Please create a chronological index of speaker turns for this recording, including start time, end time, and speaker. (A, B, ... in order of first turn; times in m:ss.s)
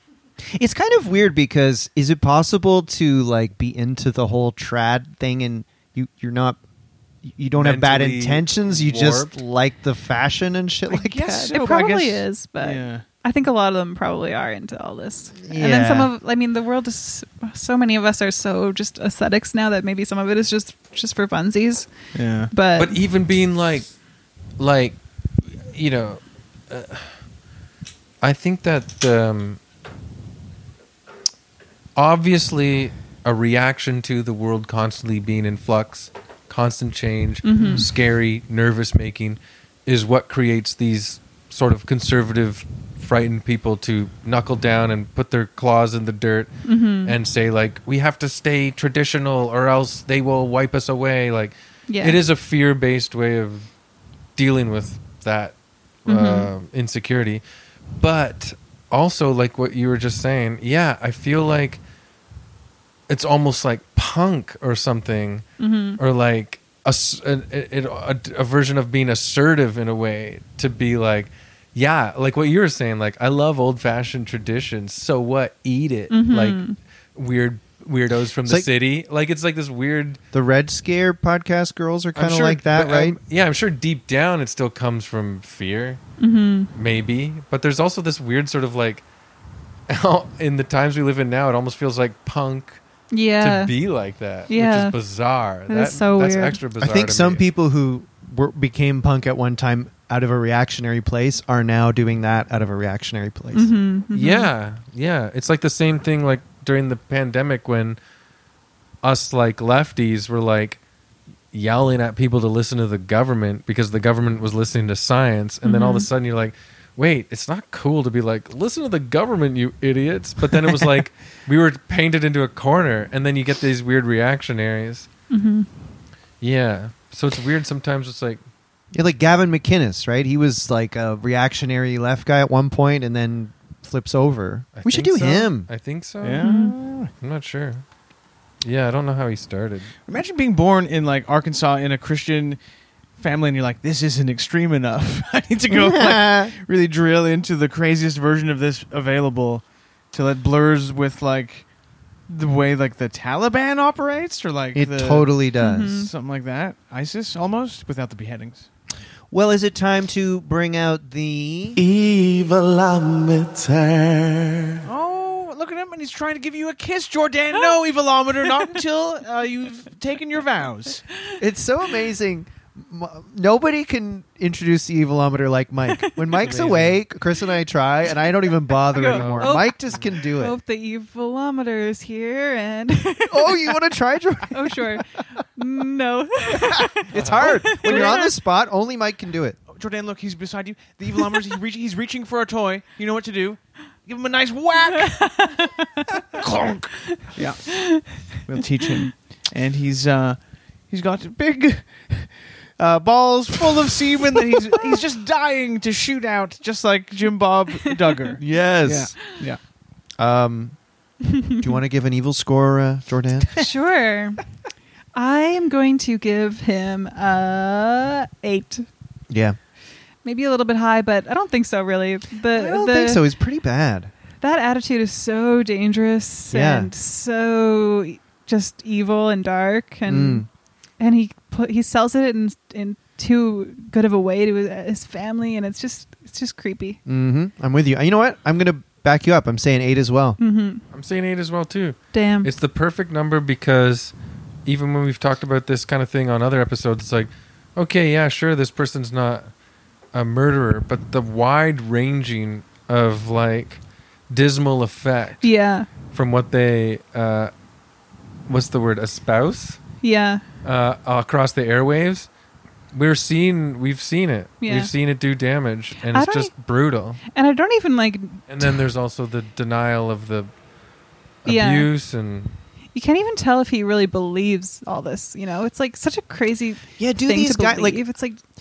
0:00.5-0:06.6 A
0:07.3-0:12.2 A
0:07.6-0:09.3 B
0:10.9-0:13.0 C
0:11.5-0:21.9 D
0:15.4-0:16.1 A
0:22.2-0:22.5 C
0:22.5-0:23.0 D
0:22.8-0:23.9 B
0:24.6-0:27.2 B
0:28.2-0:29.6 B
0:32.0-0:46.5 B
0:37.4-0:37.8 D
0:46.6-0:47.2 D
0:47.0-0:53.7 B
0:51.9-0:52.2 D
0:54.4-0:55.6 B
0:56.1-0:57.4 B
0:56.1-0:56.5 D
0:58.0-1:01.8 B
1:03.1-1:05.5 B
1:05.6-1:06.0 D
1:06.0-1:16.6 B
1:16.1-1:16.8 D
1:17.2-1:20.2 B
1:20.3-1:23.2 A
1:22.2-1:26.0 B
1:26.2-1:26.7 D
1:26.8-1:29.0 B
1:29.9-1:32.8 B
1:33.1-1:33.7 D
1:33.4-1:37.4 B
1:34.5-1:35.0 D
1:35.7-1:36.6 D
1:36.8-1:43.7 A
1:43.5-1:44.5 D
1:44.1-1:48.0 B
1:49.0-1:50.8 B
1:51.5-2:05.1 B
1:55.6-1:56.1 D
2:05.3-2:05.7 D
2:06.4-2:08.4 B
2:08.9-2:15.7 A
2:14.8-2:16.5 B
2:16.2-2:17.1 C
2:16.4-2:16.8 D
2:17.1-2:17.8 B
2:18.6-2:19.9 B
2:20.1-2:22.6 C
2:23.2-2:31.7 C
2:25.7-2:26.5 A
2:32.3-2:35.4 C
2:34.7-2:36.1 A
2:35.6-2:36.1 D
2:36.0-2:38.7 C
2:39.3-2:41.8 A
2:41.8-2:44.8 E
2:44.8-2:51.0 C
2:51.4-3:00.6 A
2:55.9-2:56.5 D
2:56.4-2:57.0 B
2:58.9-3:03.8 D
2:59.0-3:00.1 B
3:03.3-3:05.0 A
3:04.5-3:08.4 D
3:06.5-3:09.6 A
3:07.1-3:07.7 B
3:09.7-3:15.7 C
3:15.1-3:16.1 D
3:16.3-3:29.6 C
3:17.1-3:18.3 D
3:28.4-3:29.2 A
3:30.2-3:30.8 A
3:31.3-3:31.6 D
3:31.6-3:33.7 A
3:33.6-3:34.4 D
3:35.2-3:38.9 D
3:39.3-3:39.6 A
3:40.2-3:43.2 D
3:42.5-3:44.1 A
3:44.4-3:50.4 D
3:46.5-3:46.9 A
3:50.1-3:50.5 A
3:51.0-3:57.0 D
3:57.1-4:00.4 A
4:00.4-4:00.8 D
4:00.9-4:04.1 B
4:02.1-4:02.5 D
4:04.7-4:09.5 B
4:10.1-4:15.5 B
4:15.4-4:15.9 D
4:16.1-4:17.5 B
4:18.5-4:19.8 B
4:20.0-4:20.4 D
4:20.6-4:22.3 B
4:22.9-4:27.2 B
4:24.6-4:24.9 D
4:26.1-4:26.5 D
4:27.3-4:28.7 D
4:28.5-4:30.5 B
4:31.4-4:32.5 B
4:31.5-4:31.9 D
4:32.9-4:38.4 D
4:37.0-4:38.0 A